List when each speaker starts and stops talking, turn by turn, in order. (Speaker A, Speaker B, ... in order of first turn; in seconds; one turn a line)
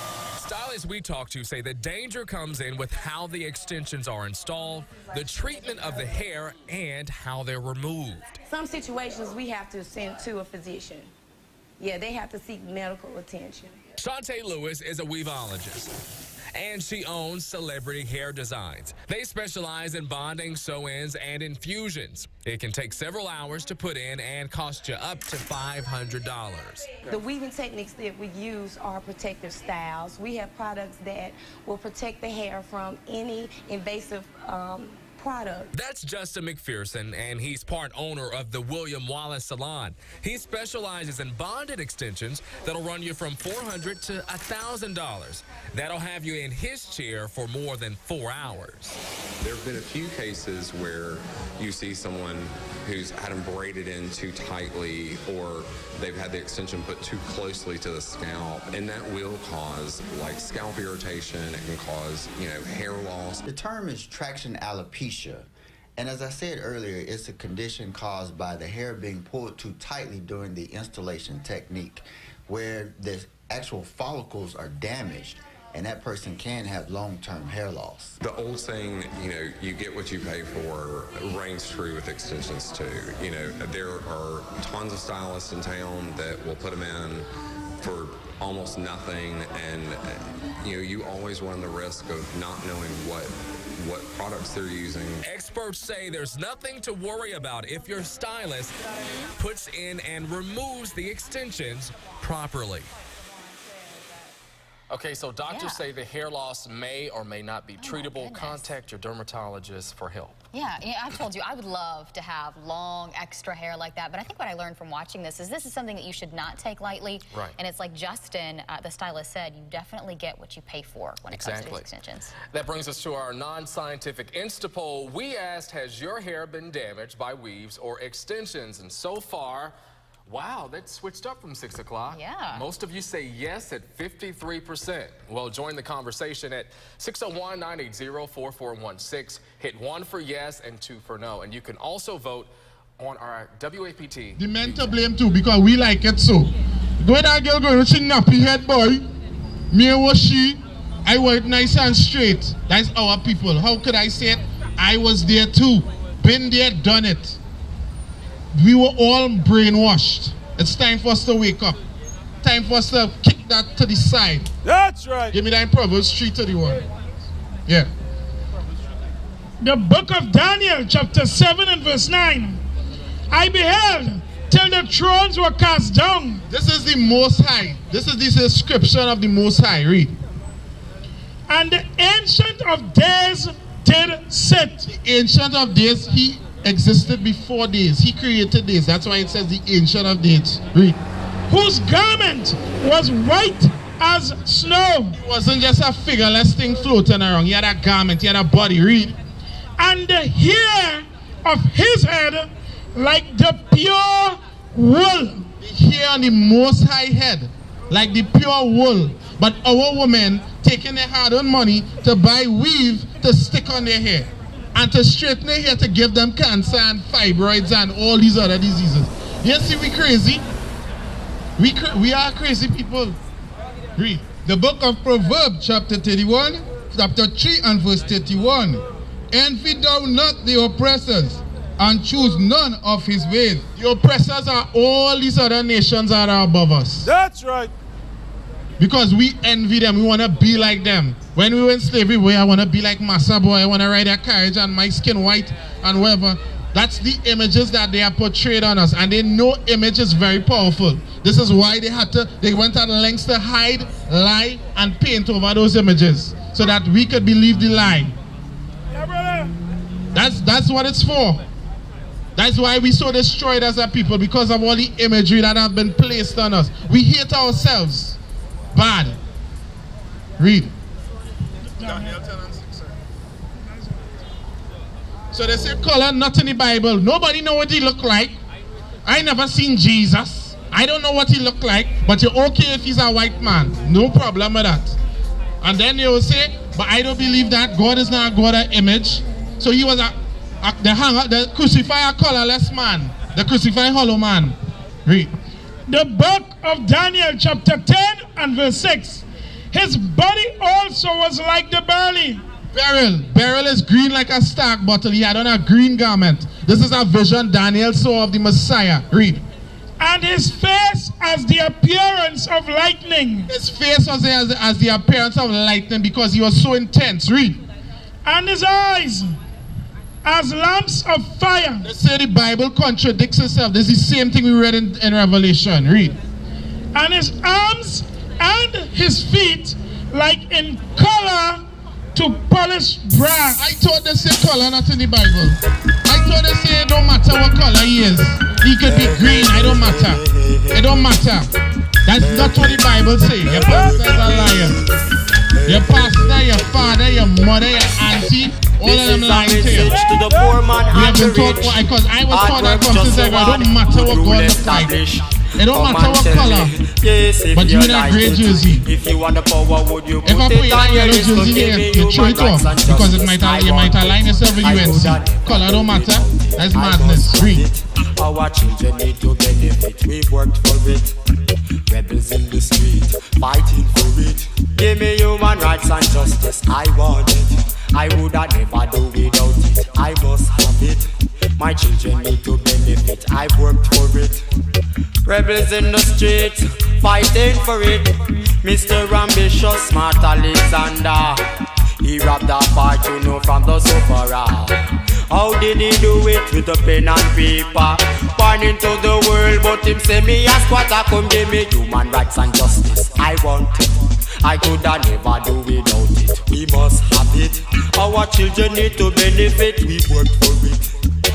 Speaker A: 0.4-8.4
Speaker B: 8.5-11.1
Speaker B: 11.8-13.8
Speaker A: 14.0-15.9
Speaker A: 16.5-26.9
Speaker B: 27.1-35.7
Speaker A: 35.7-49.0
Speaker C: 49.4-63.5
Speaker D: 63.5-78.2
Speaker C: 78.2-87.3
Speaker C: 87.8-90.0
Speaker C: 90.6-95.2
Speaker A: 95.2-98.8
Speaker A: 99.3-102.9
Speaker A: 104.9-110.4
Speaker E: 105.5-105.8
Speaker E: 107.8-108.8
Speaker E: 110.5-122.3
Speaker A: 117.3-117.6
Speaker A: 121.3-129.8
Speaker A: 130.3-144.4
Speaker E: 132.1-132.7
Speaker F: 144.4-149.1
Speaker F: 149.7-157.4
Speaker F: 158.5-161.8
Speaker F: 162.4-164.5
Speaker G: 164.6-165.4
Speaker F: 165.3-166.9
Speaker H: 169.6-172.6
Speaker H: 173.3-176.4
Speaker F: 176.5-180.2
Speaker H: 181.5-184.9
Speaker F: 184.9-191.0
Speaker H: 191.5-195.2
Speaker F: 195.2-199.2
Speaker H: 199.8-205.5
Speaker F: 205.6-220.4
Speaker F: 221.6-223.2
Speaker F: 224.0-224.2
Speaker I: 224.4-233.7
Speaker F: 233.8-237.1
Speaker G: 237.1-237.7
Speaker F: 238.8-258.1
Speaker G: 259.0-259.5
Speaker F: 260.1-261.4
Speaker F: 262.4-268.2
Speaker F: 268.7-269.2
Speaker F: 270.4-270.7
Speaker H: 271.8-272.1
Speaker F: 275.3-278.4
Speaker F: 279.1-285.0
Speaker F: 285.6-295.3
Speaker H: 295.9-302.4
Speaker F: 302.7-309.4
Speaker H: 310.0-313.5
Speaker F: 313.5-317.6
Speaker H: 318.2-319.3
Speaker H: 320.2-321.9
Speaker F: 321.8-326.2
Speaker H: 326.9-331.6
Speaker H: 332.1-333.6
Speaker F: 333.6-341.5
Speaker J: 338.8-340.8
Speaker F: 342.1-344.8
Speaker J: 343.7-344.9
Speaker F: 345.7-350.0
Speaker J: 348.8-371.1
Speaker G: 349.9-350.6
Speaker F: 350.9-354.9
Speaker F: 355.6-356.7
Speaker F: 357.6-358.9
Speaker F: 360.2-367.6
Speaker J: 371.9-384.4
Speaker J: 385.2-391.4
Speaker J: 392.0-403.9
Speaker J: 404.4-411.0